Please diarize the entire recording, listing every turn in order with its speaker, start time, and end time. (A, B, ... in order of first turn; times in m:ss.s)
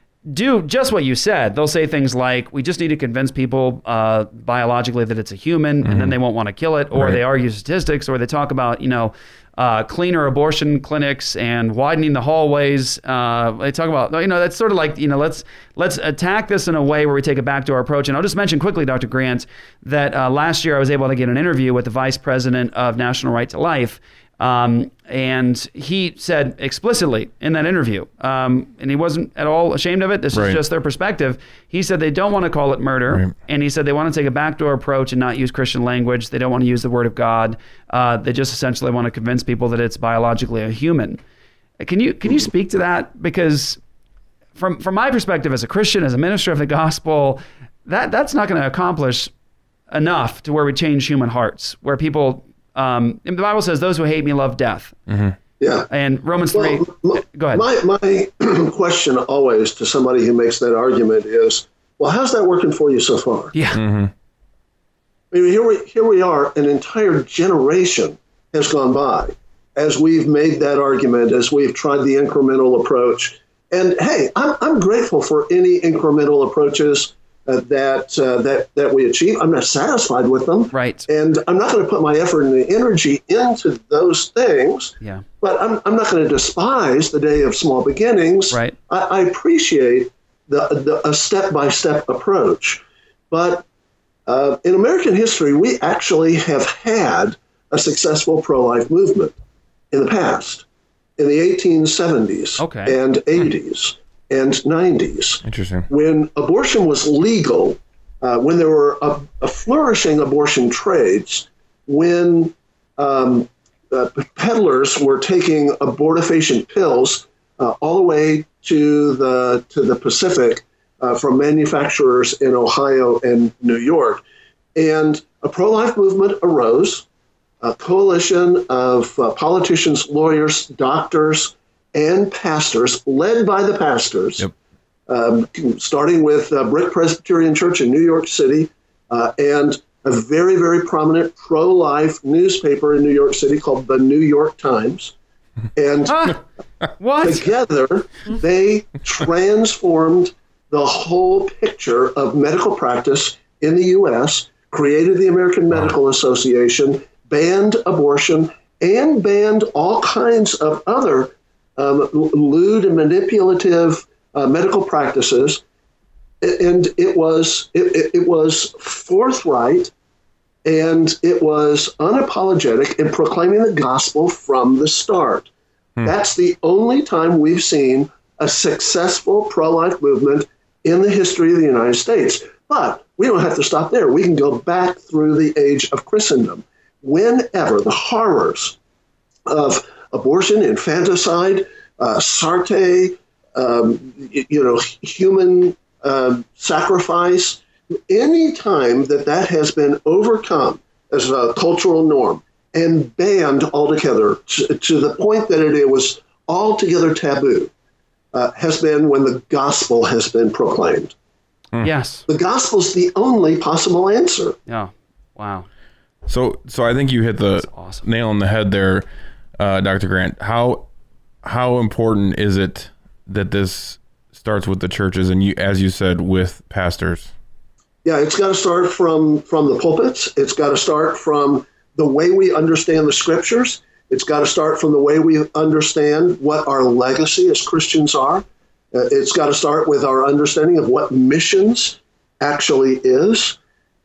0:00.3-0:41.2 A
0:05.8-0:06.2 B
0:06.9-0:07.2 B
0:30.3-0:30.6 B
0:41.8-0:43.8 A
0:44.6-0:49.3 A
0:49.9-0:54.9 A
0:55.1-0:55.4 B
0:55.6-0:55.9 C
0:55.9-0:57.7 A
0:56.5-1:03.5 C
1:03.5-1:03.8 A
1:03.7-1:04.1 B
1:05.3-1:33.6 C
1:20.7-1:21.1 A
1:34.3-1:39.3 C
1:39.9-1:40.6 C
1:41.2-2:04.2 C
1:42.6-1:43.0 A
1:45.4-1:45.9 B
2:04.8-2:07.0 C
2:07.6-2:14.5 C
2:15.1-2:25.1 C
2:25.7-2:26.3 C
2:26.1-2:26.4 A
2:27.0-2:27.5 A
2:27.2-2:45.6 C
2:46.4-2:49.9 C
2:50.6-2:55.5 C
2:56.0-3:08.8 C
3:09.5-3:27.7 C
3:28.3-3:31.1 C
3:31.8-3:32.2 A
3:32.3-3:34.6 C
3:34.6-3:35.7 A
3:36.3-3:39.0 B
3:37.6-3:38.0 A
3:39.6-3:40.9 B
3:41.4-3:47.3 B
3:48.0-4:03.6 C